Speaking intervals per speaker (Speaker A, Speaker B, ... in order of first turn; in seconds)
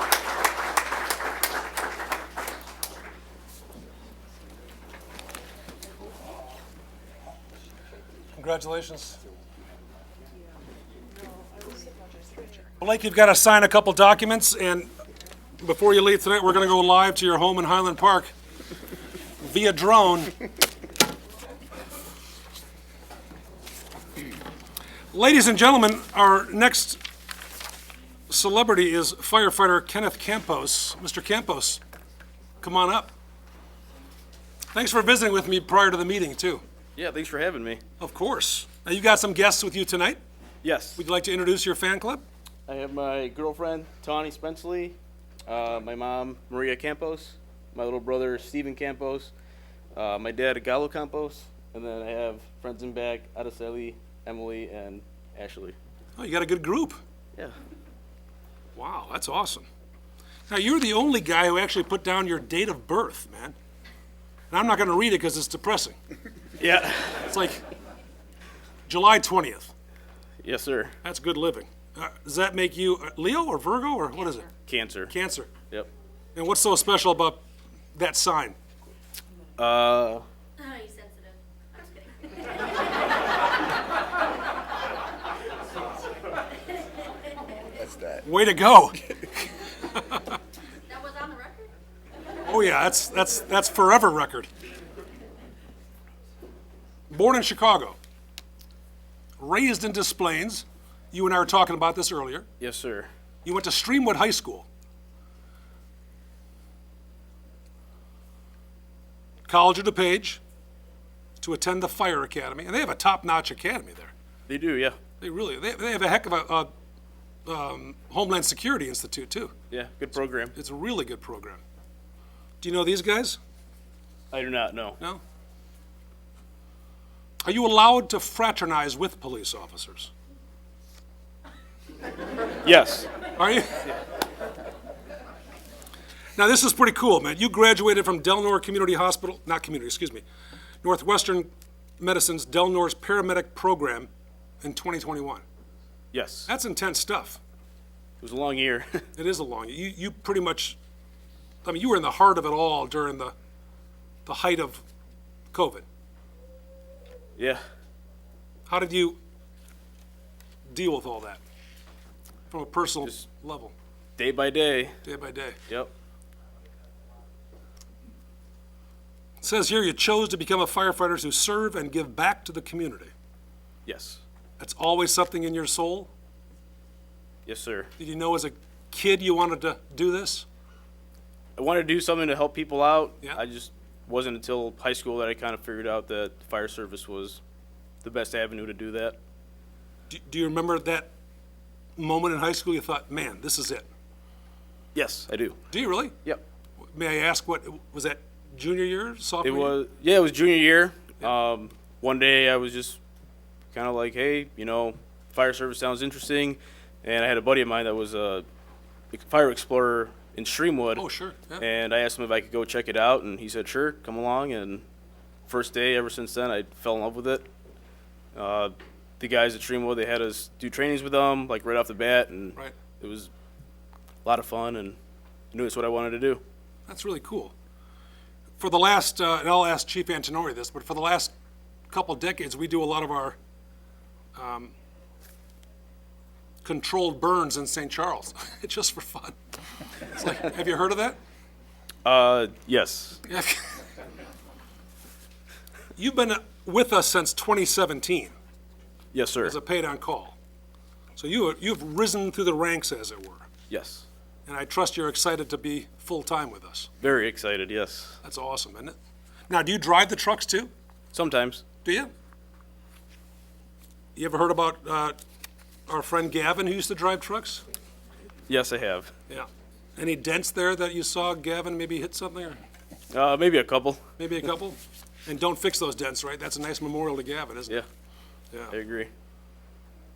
Speaker A: 8.3-9.2, 12.8-14.9, 15.6-18.3, 19.4-20.4, 25.1-27.0, 28.3-31.8, 32.6-33.1, 34.7-36.6, 38.0-40.2, 41.0-42.2, 56.2-57.0, 58.7-59.7, 60.5-63.5, 64.5-66.0, 67.2-67.6, 68.9-69.7, 71.0-74.5, 75.1-75.5, 76.3-77.4, 77.9-78.5, 88.0-90.3, 92.4-94.5, 97.1-98.0, 99.4-102.5, 103.4-104.7, 109.5-110.4, 111.4-114.1, 115.2-116.7, 117.5-119.5, 120.5-121.6, 122.6-123.4, 127.4-130.1, 133.3-133.9, 136.3-140.2, 140.8-141.5, 142.0-144.1, 144.6-145.4, 146.5-147.4, 149.2-150.8, 151.6-153.3, 154.2-154.8, 155.5-155.8, 158.7-159.2, 160.7-161.4, 162.5-163.7, 165.0-165.6, 169.4-173.1, 174.6-176.1, 178.0-180.4, 190.1-191.1, 192.0-193.8, 195.7-196.2, 196.9-199.8, 210.9-211.6, 226.9-227.5, 228.6-231.3, 231.9-233.3, 234.3-234.7, 236.6-239.3, 240.1-241.2, 243.3-243.8, 245.9-248.3, 249.4-250.4, 251.2-253.5, 254.4-256.9, 258.2-258.9, 259.5-260.7, 261.8-262.1, 264.1-265.2, 265.9-267.6, 269.3-272.6, 274.2-277.8
Speaker B: 37.0-37.8, 40.6-41.0, 42.7-49.3, 49.9-55.8, 66.6-67.3, 70.4-71.0, 74.7-75.1, 79.6-80.2, 102.6-103.1, 114.5-115.0, 119.7-120.5, 124.3-125.0, 132.6-133.1, 146.1-146.5, 148.2-149.1, 157.3-157.6, 164.2-165.0, 173.8-174.2, 177.4-177.9, 181.6-187.4, 188.0-189.2, 194.9-195.6, 199.4-203.0, 203.7-208.4, 209.1-211.1, 211.6-214.8, 215.5-217.4, 218.3-223.3, 224.2-225.0, 225.5-226.4, 242.0-243.2, 249.1-249.6, 253.7-254.1, 257.0-258.2, 261.1-261.6, 268.5-269.1, 273.1-274.0, 278.7-279.1
Speaker C: 80.6-83.0, 90.9-91.7